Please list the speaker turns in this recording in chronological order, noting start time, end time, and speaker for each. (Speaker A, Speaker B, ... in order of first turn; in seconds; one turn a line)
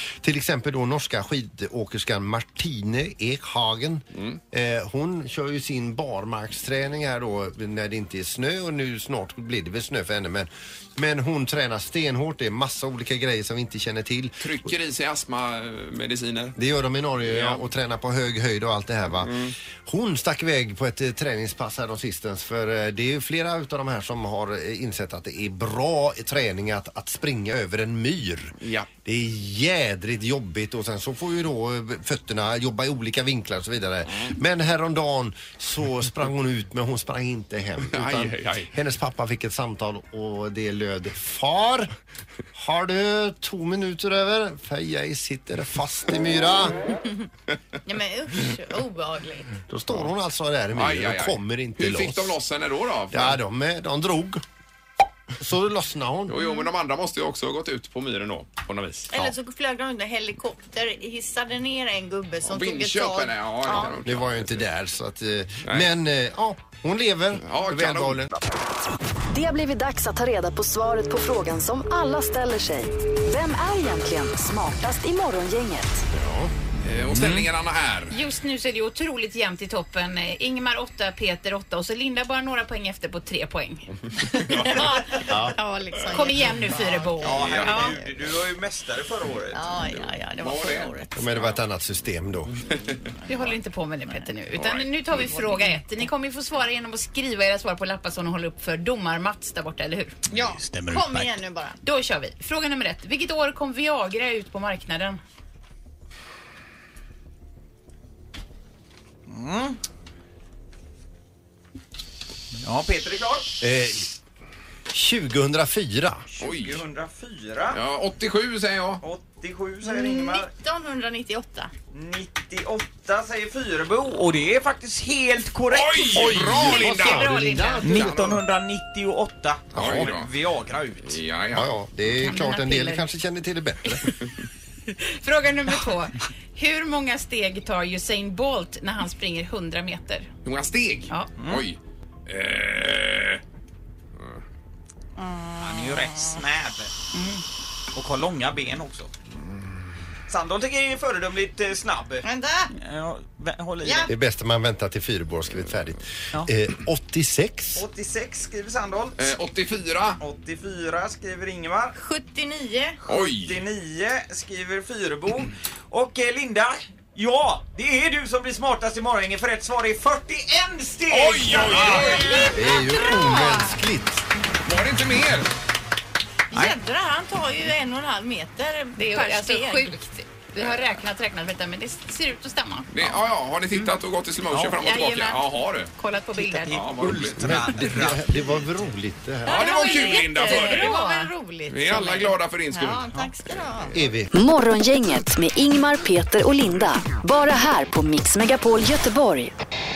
Speaker A: 0.2-14.5
Speaker B: 4.1-4.4
Speaker B: 14.4-16.6
Speaker A: 16.6-41.9
Speaker B: 17.2-17.6
Speaker B: 19.2-19.5
Speaker B: 28.6-28.9
Speaker B: 37.9-38.7
Speaker A: 42.5-46.8
Speaker C: 47.9-49.5
Speaker A: 49.7-52.4
Speaker B: 50.7-53.4
Speaker A: 53.1-54.4
Speaker A: 55.4-56.4
Speaker B: 56.3-59.3
Speaker C: 59.1-64.0
Speaker B: 62.5-64.6
Speaker A: 64.0-68.3
Speaker B: 65.7-65.9
Speaker B: 67.4-68.2
Speaker D: 69.3-76.0
Speaker A: 76.1-76.5
Speaker B: 76.8-78.2
Speaker E: 78.1-83.9
Speaker C: 84.3-88.0
Speaker B: 84.5-84.8
Speaker A: 85.3-85.6
Speaker E: 86.1-88.0
Speaker F: 87.2-89.6
Speaker B: 87.3-87.9
Speaker C: 89.5-91.2
Speaker B: 89.9-91.5
Speaker A: 91.2-92.6
Speaker B: 92.7-92.9
Speaker E: 93.3-100.2
Speaker B: 94.5-94.9
Speaker C: 95.1-95.8
Speaker C: 100.3-101.8
Speaker E: 101.8-105.2
Speaker F: 109.3-109.8
Speaker F: 112.6-113.5
Speaker A: 113.6-114.2
Speaker A: 114.9-116.2
Speaker F: 116.3-117.8
Speaker B: 116.4-116.8
Speaker B: 117.7-119.0
Speaker F: 119.0-120.5
Speaker C: 119.8-121.7
Speaker F: 121.9-126.5
Speaker B: 125.7-128.4
Speaker A: 126.2-128.2
Speaker E: 126.7-128.1
Speaker F: 127.8-131.2
Speaker A: 129.7-130.1
Speaker B: 129.8-130.3
Speaker B: 131.1-131.7
Speaker A: 131.5-134.1
Speaker E: 132.2-133.1
Speaker E: 134.9-140.3
Speaker B: 140.4-143.4
Speaker C: 145.2-146.2
Speaker F: 145.6-146.9
Speaker F: 147.9-149.1
Speaker F: 150.3-152.2
Speaker C: 152.2-152.7
Speaker F: 152.8-154.1
Speaker C: 153.8-154.1
Speaker A: 154.1-157.8
Speaker F: 157.8-159.2
Speaker B: 159.2-160.2
Speaker F: 160.2-161.9
Speaker C: 161.9-163.0
Speaker B: 163.1-163.6
Speaker F: 163.1-172.4
Speaker B: 171.1-172.5
Speaker C: 172.1-172.7
Speaker A: 172.5-174.2
Speaker E: 173.1-173.6
Speaker B: 174.7-175.5
Speaker C: 176.5-180.0
Speaker E: 179.0-183.0
Speaker B: 180.6-180.8
Speaker B: 182.9-185.9
Speaker E: 184.7-186.8
Speaker F: 186.3-188.3
Speaker B: 186.7-187.5
Speaker A: 187.4-189.8
Speaker B: 189.5-191.0
Speaker C: 189.5-194.0
Speaker E: 189.5-191.3
Speaker B: 191.7-193.1
Speaker A: 193.9-194.3
Speaker D: 194.3-199.5